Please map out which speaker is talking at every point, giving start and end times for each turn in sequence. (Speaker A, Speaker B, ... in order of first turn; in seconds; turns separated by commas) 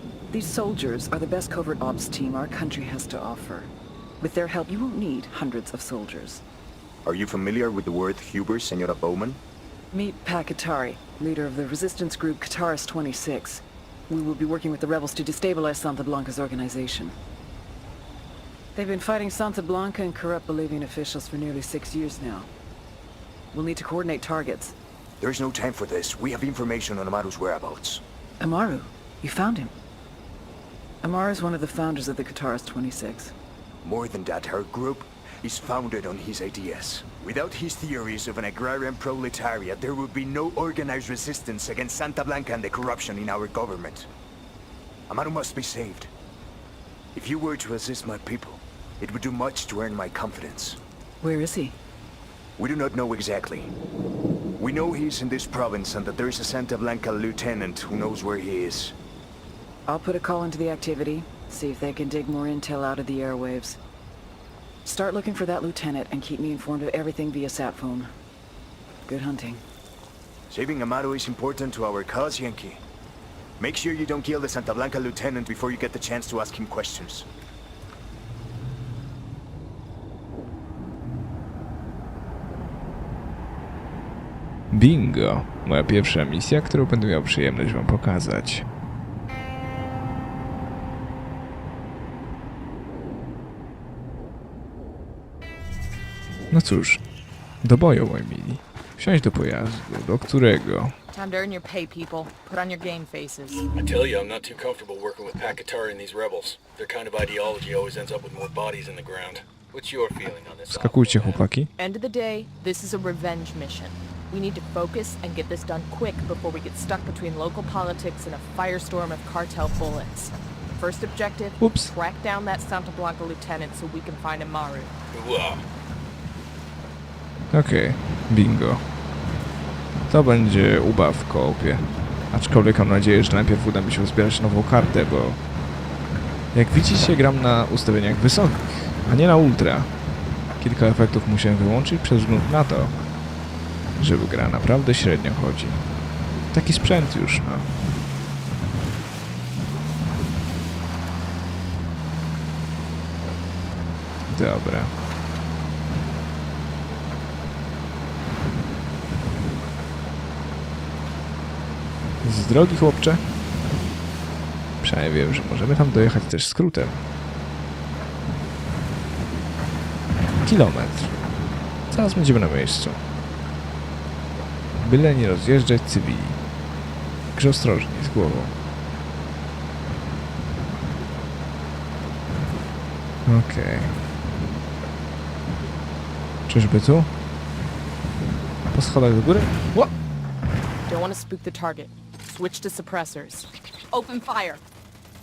Speaker A: 0.3-3.7, Speaker A: 4.2-6.4, Speaker B: 7.0-9.4, Speaker A: 9.9-17.1, Speaker A: 18.8-22.5, Speaker A: 23.5-24.7, Speaker B: 25.2-28.0, Speaker A: 28.4-29.7, Speaker A: 31.0-33.3, Speaker B: 33.8-44.1, Speaker B: 45.1-46.1, Speaker B: 47.1-50.8, Speaker A: 51.2-51.7, Speaker B: 52.6-53.7, Speaker B: 54.6-58.9, Speaker A: 59.9-63.8, Speaker A: 64.8-68.1, Speaker A: 69.1-69.6, Speaker B: 70.5-72.8, Speaker B: 73.6-77.2, Speaker C: 84.7-88.6, Speaker C: 96.5-97.0, Speaker C: 97.6-100.9, Speaker D: 101.1-103.7, Speaker E: 103.7-111.4, Speaker C: 110.7-111.7, Speaker D: 111.8-124.9, Speaker C: 121.6-121.9, Speaker E: 125.1-125.6, Speaker C: 127.5-128.8, Speaker C: 130.1-135.4, Speaker C: 136.5-139.9, Speaker C: 140.6-142.9, Speaker C: 144.0-145.8, Speaker C: 146.5-147.7, Speaker C: 154.3-154.9, Speaker C: 162.2-163.2, Speaker C: 164.8-167.0, Speaker C: 170.4-171.1, Speaker C: 171.9-173.0, Speaker C: 174.8-176.4, Speaker C: 177.3-178.5, Speaker C: 183.3-183.9, Speaker C: 186.5-187.1, Speaker C: 188.7-189.9, Speaker D: 190.9-194.6